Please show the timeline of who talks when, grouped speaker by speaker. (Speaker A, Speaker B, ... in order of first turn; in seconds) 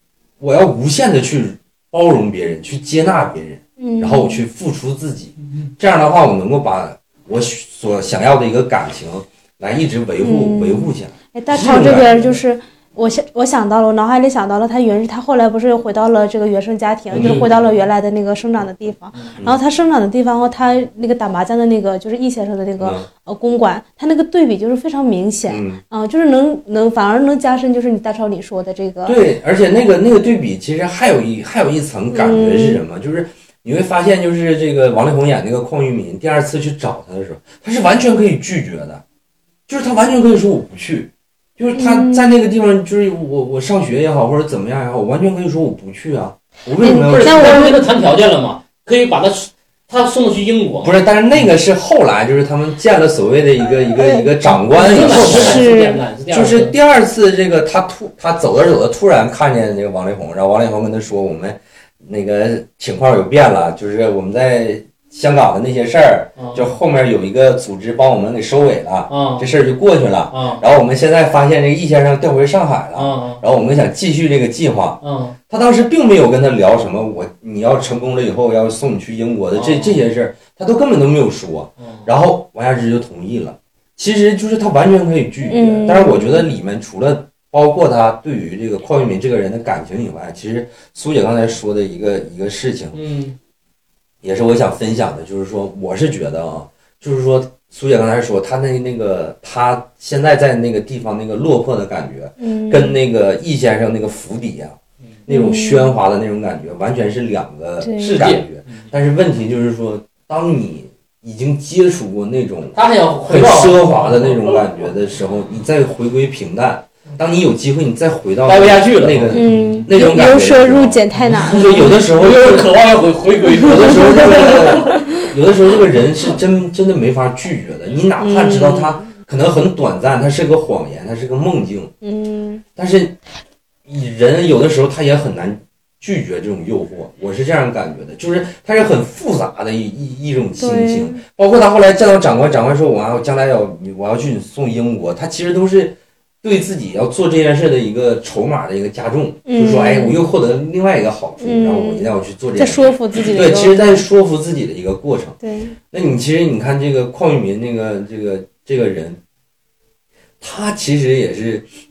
Speaker A: 0.4-12.4, 17.1-17.5, 22.8-23.1, 25.5-25.8, 29.1-39.0, 39.7-47.7, 50.8-55.7, 56.3-93.0, 94.2-122.7, 123.6-131.9, 132.8-133.2, 133.9-155.4, 155.9-159.2, 160.4-161.7
Speaker B: 3.8-4.4, 10.2-29.2, 32.1-32.8, 41.7-42.3, 46.8-47.8, 54.0-56.0, 85.5-86.5, 102.4-103.0, 105.3-105.9, 107.8-108.2, 119.3-121.9, 123.5-125.2, 128.2-129.1, 132.0-132.6, 140.6-141.2, 149.5-150.2, 151.4-154.0, 155.4-155.8
Speaker C: 17.1-17.5, 46.9-51.5, 54.5-56.7, 66.4-66.7, 69.1-69.5, 70.3-70.6, 72.9-73.4, 75.0-75.4, 79.5-80.0, 81.8-82.1, 92.9-93.4, 108.0-108.9, 112.8-114.7, 118.5-119.8, 121.2-125.0